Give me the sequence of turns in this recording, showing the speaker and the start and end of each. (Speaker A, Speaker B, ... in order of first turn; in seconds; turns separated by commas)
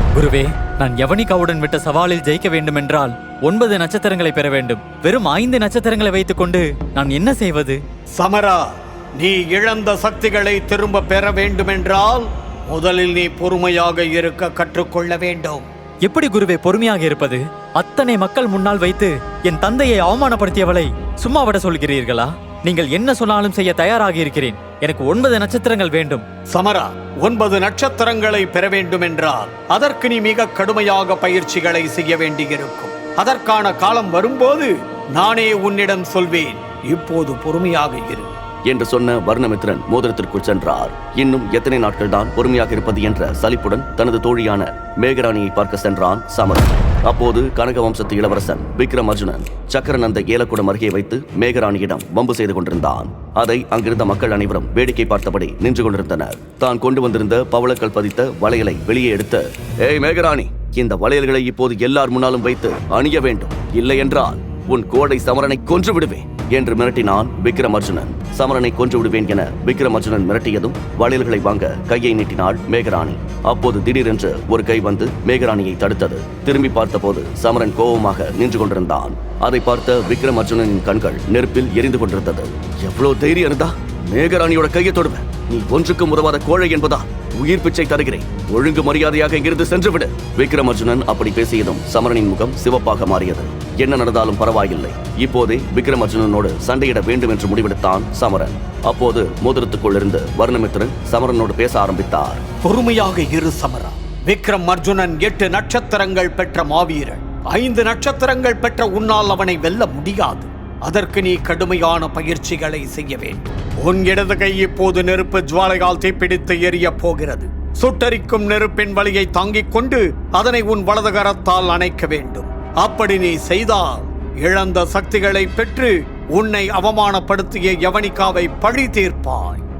Speaker A: 0.1-7.8, Speaker B: 8.2-8.6, Speaker B: 9.2-15.7, Speaker A: 16.0-26.2, Speaker B: 26.5-38.3, Speaker C: 38.7-102.4, Speaker B: 102.6-129.6